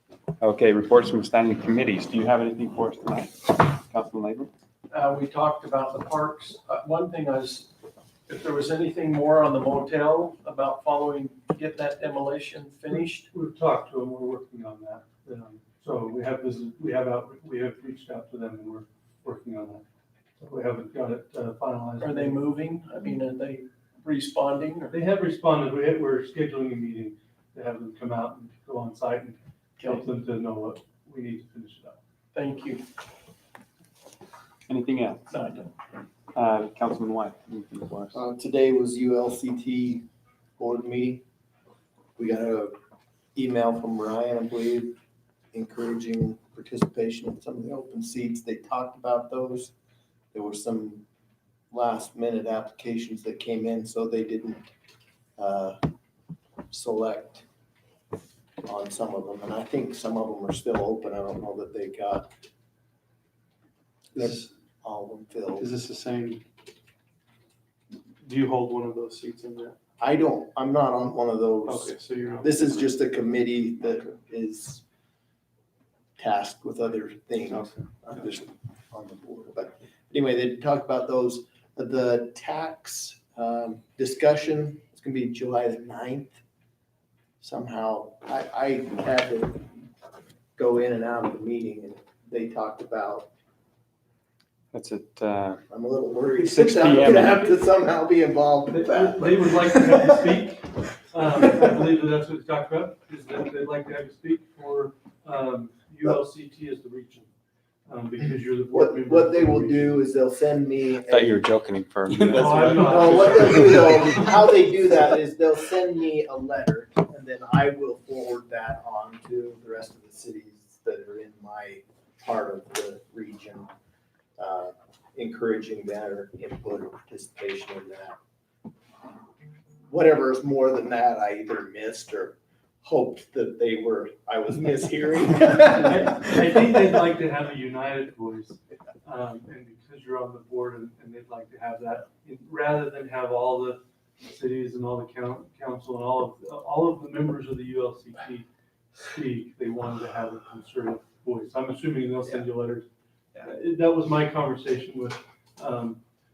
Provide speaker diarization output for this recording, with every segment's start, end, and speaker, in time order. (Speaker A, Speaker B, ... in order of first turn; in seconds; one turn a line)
Speaker A: 0.4-4.5
Speaker B: 4.9-7.7
Speaker B: 8.3-13.2
Speaker C: 12.9-19.8
Speaker C: 20.4-22.5
Speaker B: 22.0-25.0
Speaker C: 24.9-32.0
Speaker B: 29.8-30.1
Speaker B: 32.3-32.8
Speaker A: 34.7-35.3
Speaker B: 35.3-35.7
Speaker A: 36.3-38.2
Speaker D: 38.1-40.0
Speaker D: 40.6-41.2
Speaker D: 42.2-42.7
Speaker D: 43.3-45.0
Speaker D: 45.5-49.7
Speaker D: 50.3-51.0
Speaker D: 51.7-54.7
Speaker D: 55.4-55.8
Speaker D: 56.7-57.5
Speaker D: 58.7-62.3
Speaker D: 64.2-65.7
Speaker E: 65.6-66.4
Speaker E: 68.2-69.8
Speaker D: 70.0-74.8
Speaker E: 71.7-72.9
Speaker D: 76.2-86.4
Speaker E: 77.5-78.2
Speaker D: 87.4-89.7
Speaker D: 90.6-93.3
Speaker A: 94.7-95.6
Speaker D: 95.7-100.2
Speaker A: 96.3-97.5
Speaker C: 98.7-107.3
Speaker C: 107.9-110.0
Speaker D: 108.7-111.5
Speaker A: 111.1-113.2
Speaker C: 112.2-113.9
Speaker D: 112.7-123.7
Speaker D: 124.4-128.2
Speaker D: 129.9-136.7
Speaker C: 135.5-148.5
Speaker C: 149.1-152.9
Speaker C: 153.4-156.0